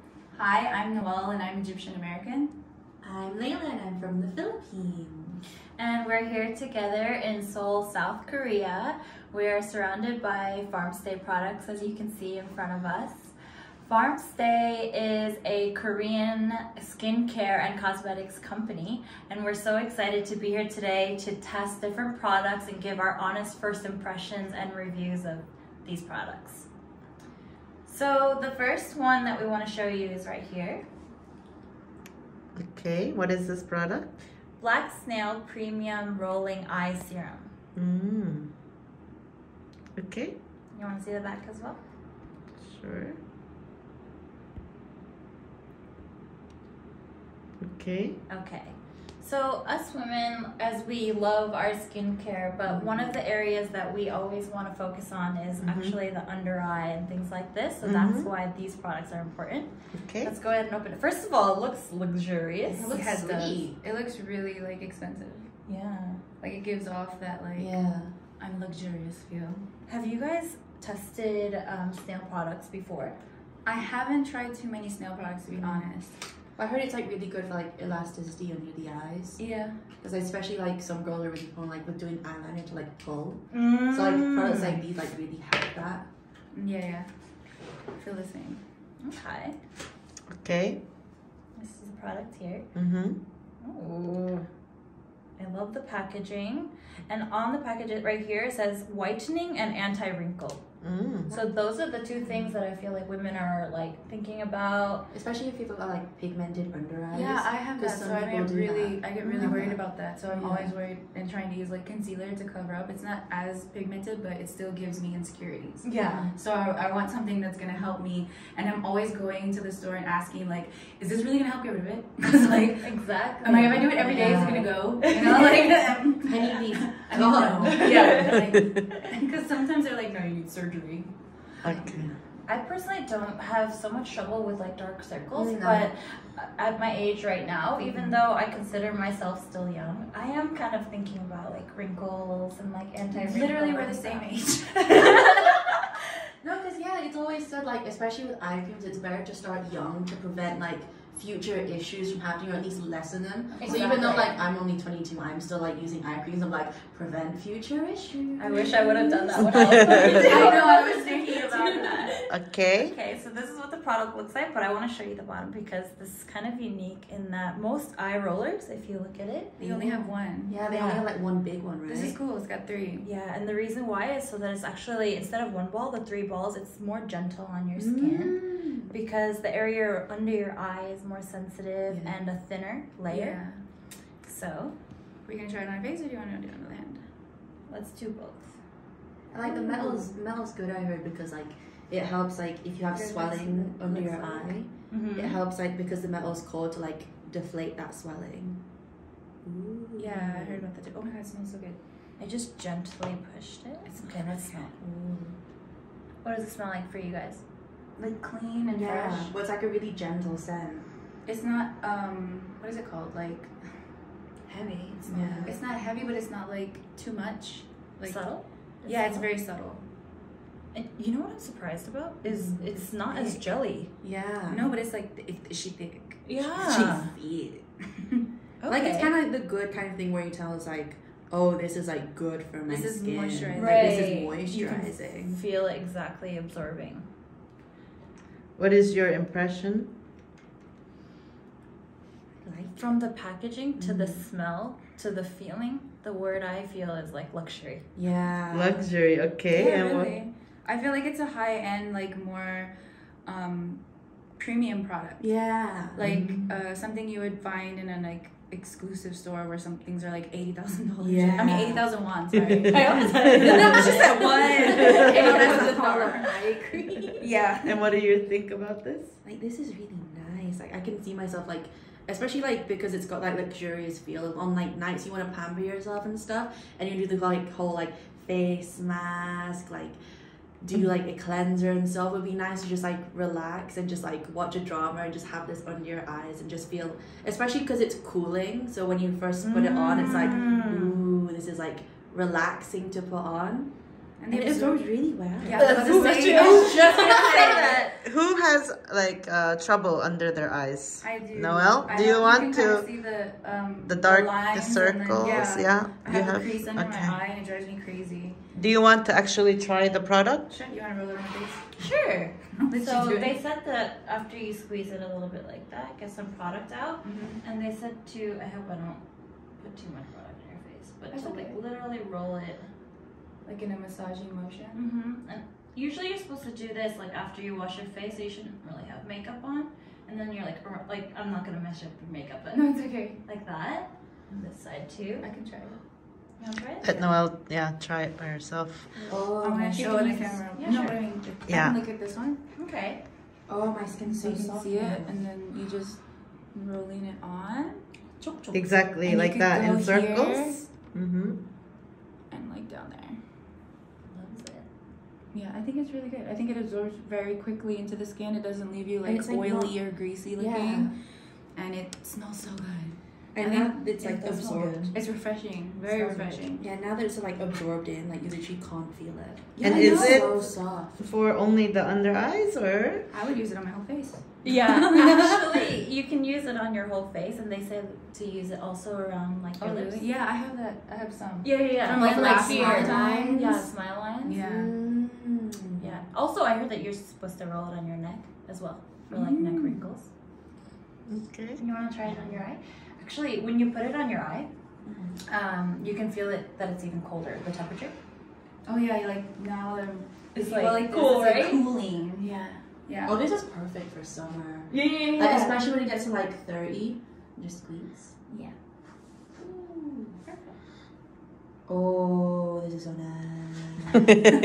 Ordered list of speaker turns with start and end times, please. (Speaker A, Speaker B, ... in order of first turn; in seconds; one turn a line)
Speaker A: 0.3-2.5
Speaker B: 3.0-5.4
Speaker C: 5.8-26.7
Speaker C: 27.9-30.9
Speaker D: 32.5-34.2
Speaker C: 34.6-37.5
Speaker D: 37.8-38.5
Speaker D: 40.0-40.4
Speaker C: 40.8-41.8
Speaker D: 42.6-43.2
Speaker D: 47.6-48.2
Speaker C: 48.3-62.9
Speaker B: 52.7-53.2
Speaker D: 55.6-56.0
Speaker D: 57.8-58.3
Speaker D: 60.0-60.3
Speaker B: 62.7-63.8
Speaker A: 62.9-65.5
Speaker C: 65.7-66.2
Speaker A: 66.4-67.7
Speaker B: 67.6-68.1
Speaker A: 68.4-69.7
Speaker C: 69.9-73.2
Speaker A: 73.7-76.2
Speaker B: 75.5-75.9
Speaker B: 76.6-86.1
Speaker A: 79.4-79.8
Speaker C: 83.5-84.8
Speaker A: 86.5-87.1
Speaker A: 88.0-88.6
Speaker C: 89.0-89.5
Speaker D: 90.3-90.8
Speaker C: 91.6-92.7
Speaker D: 92.8-93.2
Speaker C: 93.6-94.5
Speaker C: 95.4-100.7
Speaker D: 100.8-101.3
Speaker C: 101.3-105.1
Speaker B: 105.1-110.7
Speaker A: 107.1-132.1
Speaker C: 109.2-109.7
Speaker C: 115.8-116.3
Speaker B: 116.1-116.3
Speaker C: 122.3-125.7
Speaker B: 124.0-124.9
Speaker B: 126.2-128.3
Speaker C: 127.7-129.0
Speaker D: 131.6-132.1
Speaker C: 132.5-144.3
Speaker B: 135.3-135.9
Speaker A: 143.1-145.5
Speaker C: 144.9-145.6
Speaker B: 146.4-158.8
Speaker A: 153.5-154.3
Speaker C: 153.6-154.3
Speaker C: 158.4-169.6
Speaker A: 158.5-162.1
Speaker B: 159.4-161.0
Speaker D: 162.3-162.9
Speaker B: 169.6-172.2
Speaker A: 169.6-170.6
Speaker C: 170.7-171.0
Speaker A: 171.8-173.1
Speaker C: 173.0-183.4
Speaker B: 177.8-178.9
Speaker B: 181.9-182.2
Speaker A: 183.1-183.6
Speaker C: 184.2-184.8
Speaker A: 185.3-187.0
Speaker C: 187.7-188.5
Speaker B: 189.3-198.6
Speaker A: 189.4-190.1
Speaker A: 192.9-194.6
Speaker C: 194.9-195.4
Speaker B: 199.4-200.7
Speaker A: 200.0-201.8
Speaker C: 202.2-204.7
Speaker A: 203.9-204.6
Speaker B: 204.8-205.4
Speaker C: 206.2-207.4
Speaker A: 208.0-209.3
Speaker B: 208.7-210.9
Speaker A: 211.3-213.8
Speaker C: 214.5-215.6
Speaker B: 215.0-215.6
Speaker A: 215.1-219.8
Speaker C: 218.0-219.2
Speaker C: 220.7-223.9
Speaker B: 222.2-222.7
Speaker A: 223.1-223.4
Speaker B: 224.0-224.7
Speaker A: 224.5-226.9
Speaker C: 226.2-227.1
Speaker B: 226.6-227.6
Speaker C: 228.6-229.1
Speaker B: 228.7-235.3
Speaker A: 232.7-235.3
Speaker C: 233.5-237.1
Speaker D: 238.6-239.9
Speaker B: 242.4-242.9
Speaker C: 242.8-247.9
Speaker B: 243.8-244.2
Speaker B: 248.0-248.9
Speaker D: 248.5-250.2
Speaker A: 249.5-253.8
Speaker A: 254.4-255.3
Speaker B: 255.2-256.0
Speaker A: 255.9-267.9
Speaker B: 261.0-261.9
Speaker D: 262.5-263.8
Speaker C: 262.7-264.5
Speaker B: 263.4-267.3
Speaker D: 264.7-265.3
Speaker C: 265.3-265.6
Speaker D: 267.6-269.2
Speaker B: 269.2-280.0
Speaker B: 280.6-293.7
Speaker C: 289.4-291.0
Speaker A: 294.2-294.8
Speaker B: 294.3-297.8
Speaker A: 295.4-297.6
Speaker D: 295.6-297.0
Speaker C: 295.6-298.0
Speaker D: 297.9-302.9
Speaker A: 301.0-308.4
Speaker D: 303.9-307.2
Speaker D: 308.5-310.6
Speaker A: 310.5-311.7
Speaker C: 311.8-319.0
Speaker A: 312.6-313.4
Speaker A: 317.0-317.4
Speaker C: 319.6-322.7
Speaker A: 321.1-321.6
Speaker A: 323.4-324.8
Speaker C: 324.8-335.3
Speaker A: 332.5-333.2
Speaker A: 335.2-335.8
Speaker C: 336.4-337.1
Speaker D: 336.8-339.1
Speaker C: 338.9-339.2
Speaker B: 339.1-341.0
Speaker A: 339.4-342.4
Speaker C: 339.8-341.0
Speaker D: 341.5-341.8
Speaker C: 342.5-343.0
Speaker B: 343.5-345.2
Speaker A: 344.1-347.8
Speaker B: 348.2-348.7
Speaker D: 348.5-351.4
Speaker A: 349.0-350.7
Speaker A: 352.3-353.2
Speaker C: 354.1-354.7
Speaker A: 355.3-363.9
Speaker B: 359.1-359.8
Speaker B: 360.4-360.9
Speaker B: 363.4-364.9
Speaker C: 364.0-364.9
Speaker A: 364.9-366.6
Speaker C: 365.9-366.4
Speaker B: 366.6-371.0
Speaker A: 369.6-370.3
Speaker D: 369.6-373.1
Speaker A: 373.1-375.6
Speaker C: 374.4-380.1
Speaker A: 379.6-383.5
Speaker C: 381.4-384.4
Speaker B: 381.9-383.7
Speaker A: 384.2-384.7
Speaker B: 384.4-385.9
Speaker C: 385.8-390.1
Speaker A: 389.1-389.8
Speaker D: 391.1-391.6
Speaker C: 391.6-394.5
Speaker B: 392.1-392.4
Speaker B: 394.9-395.2
Speaker C: 395.3-397.9
Speaker A: 398.6-402.3
Speaker C: 400.3-401.7
Speaker B: 402.3-408.1
Speaker A: 402.9-403.2
Speaker C: 404.7-405.6
Speaker B: 409.4-410.1
Speaker C: 410.3-410.5
Speaker B: 411.7-414.2